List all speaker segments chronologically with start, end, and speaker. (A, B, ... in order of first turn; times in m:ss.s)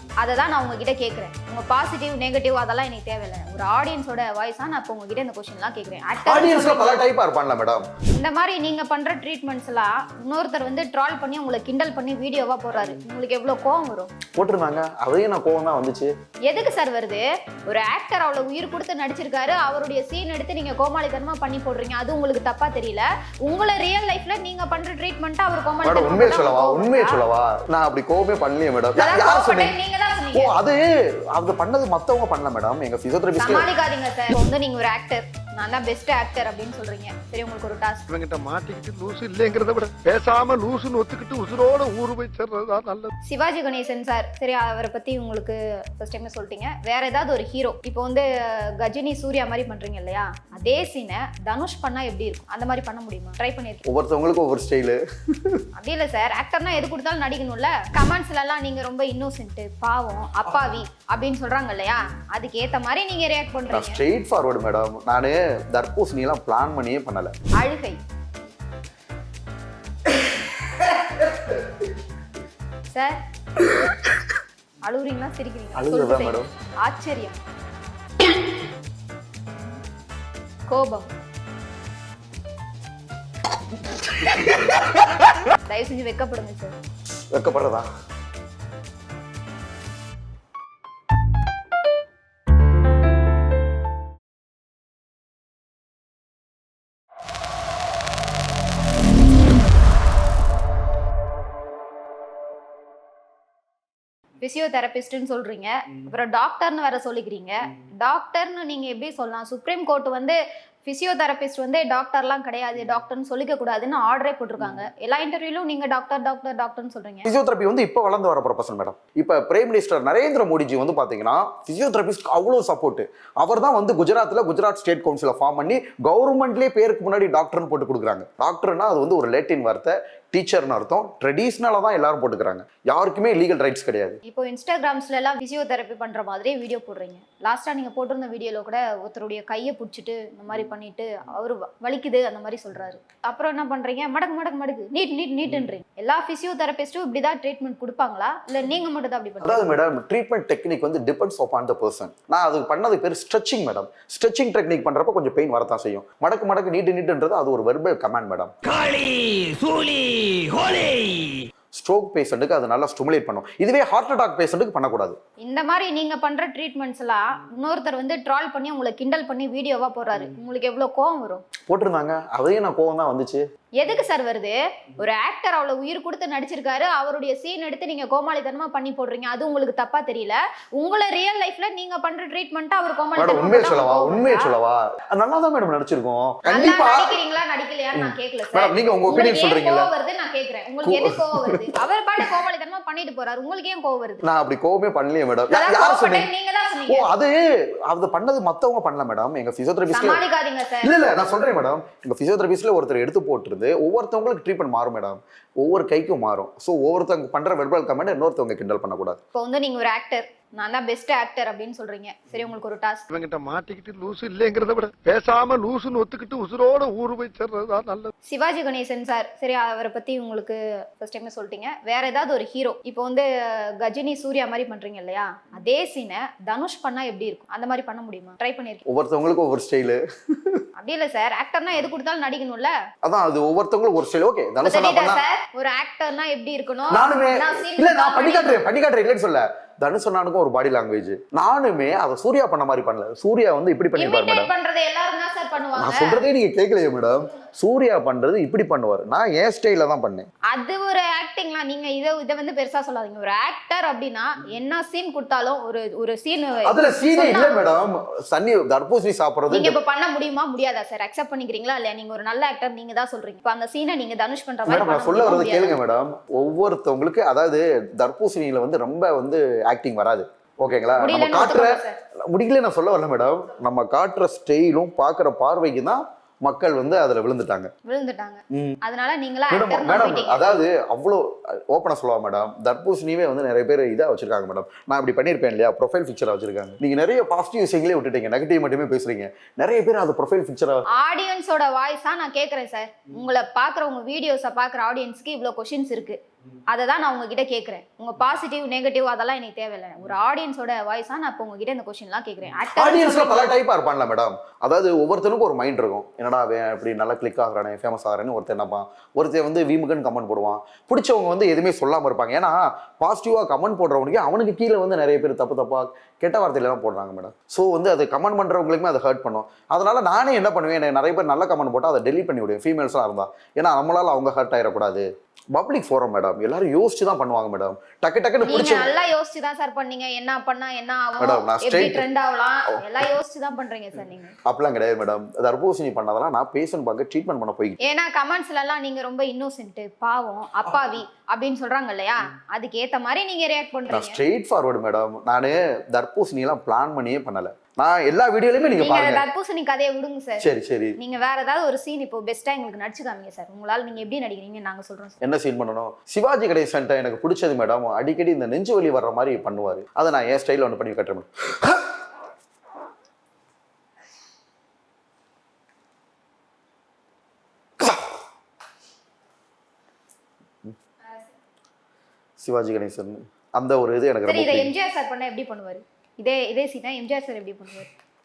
0:00.2-0:07.0 A
0:06.2-0:07.8 B
0:08.1-0:14.1 A
0:14.3-0:16.1 B
0:16.5-0:27.2 A
0:25.8-0:29.8 B
0:29.0-0:30.5 A
0:30.3-0:33.7 B
0:33.4-0:38.0 A
0:38.1-0:43.1 C
0:43.2-0:53.8 A
0:53.8-0:55.6 B
0:55.8-1:04.0 A
1:03.7-1:07.3 B
1:07.6-1:08.0 A
1:12.9-1:13.2 A
1:13.7-1:14.1 B
1:14.8-1:17.4 A
1:15.7-1:16.5 B
1:20.7-1:21.1 A
1:24.0-1:25.0 B
1:25.6-1:26.7 A
1:27.3-1:27.9 B
1:44.4-1:57.3 A
1:57.2-2:14.2 B
2:14.2-2:29.6 A
2:29.4-2:38.5 B
2:38.6-2:41.5 D
2:41.7-2:45.2 B
2:45.4-2:51.4 A
2:51.7-2:53.4 B
2:53.8-3:04.5 A
3:03.2-3:07.2 B
3:06.5-3:14.2 A
3:07.9-3:09.9 B
3:10.8-3:11.7 B
3:14.2-3:16.3 B
3:15.5-3:17.1 A
3:16.9-3:20.2 B
3:19.9-3:20.9 A
3:20.8-3:29.2 B
3:29.3-3:33.0 A
3:33.1-3:38.1 C
3:38.2-3:48.8 A
3:48.8-3:50.6 B
3:50.8-3:52.7 A
3:53.0-3:55.2 B
3:54.6-3:58.6 A
3:56.9-4:04.5 B
4:04.0-4:06.2 A
4:05.7-4:10.3 B
4:10.5-4:17.6 A
4:16.6-4:19.8 B
4:19.5-4:25.8 A
4:24.7-4:37.7 B
4:31.0-4:32.0 A
4:37.8-4:40.5 A
4:38.5-4:38.8 B
4:39.5-4:50.8 B
4:50.9-4:56.2 A
4:56.7-5:03.5 A
5:02.7-5:28.9 B
5:28.4-5:34.3 A
5:31.2-5:32.1 B
5:32.7-5:33.1 B
5:34.4-5:37.8 B
5:37.8-5:44.2 A
5:43.9-5:49.2 B
5:48.8-5:50.4 A
5:50.4-5:51.0 B
5:51.0-5:55.2 A
5:55.2-6:01.9 B
6:07.8-6:08.2 B
6:12.4-6:14.7 B
6:14.3-6:17.9 A